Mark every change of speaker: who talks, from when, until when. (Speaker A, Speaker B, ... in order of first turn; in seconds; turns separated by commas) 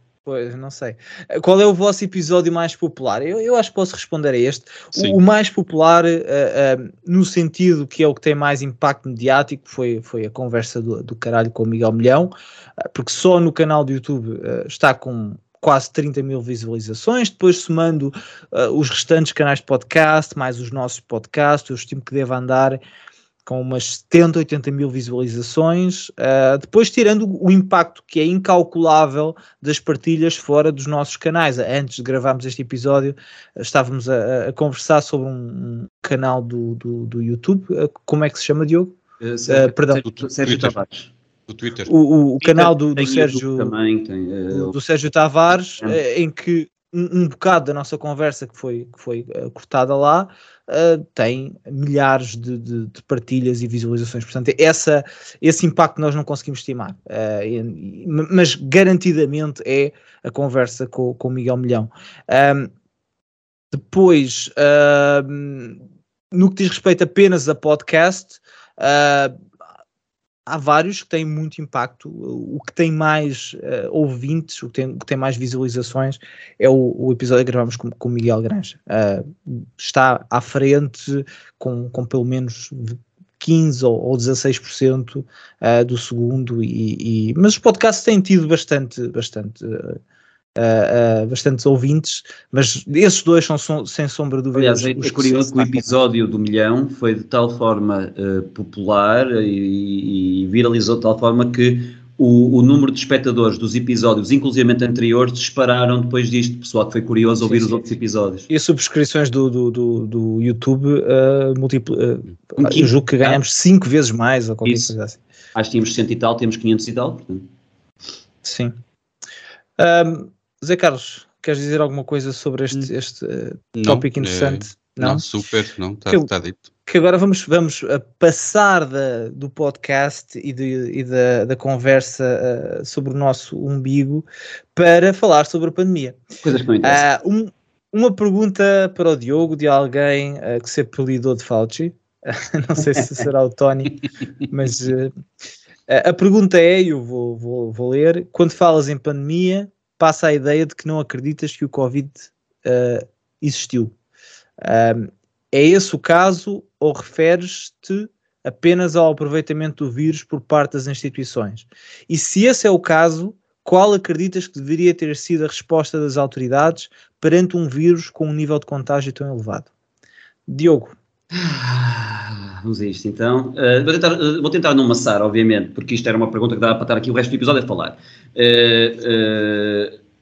Speaker A: 0.2-12.3, Speaker A: 12.9-22.8, Speaker A: 23.4-40.0, Speaker B: 39.2-41.1, Speaker C: 40.1-40.7, Speaker C: 41.5-41.9, Speaker A: 41.9-43.7, Speaker B: 42.4-44.7, Speaker A: 44.5-62.7, Speaker A: 63.7-65.8, Speaker A: 66.3-69.3, Speaker A: 70.5-90.0, Speaker A: 90.6-96.0, Speaker B: 94.5-108.5, Speaker A: 107.4-107.8, Speaker A: 108.5-115.2, Speaker B: 112.6-113.4, Speaker B: 114.6-114.9, Speaker B: 115.5-117.5, Speaker A: 118.4-118.7, Speaker A: 119.8-125.2, Speaker C: 123.7-126.7, Speaker A: 126.8-136.2, Speaker B: 136.4-137.0, Speaker A: 136.8-145.1, Speaker A: 145.9-153.9, Speaker A: 154.6-169.7, Speaker A: 170.5-170.9, Speaker B: 171.3-179.9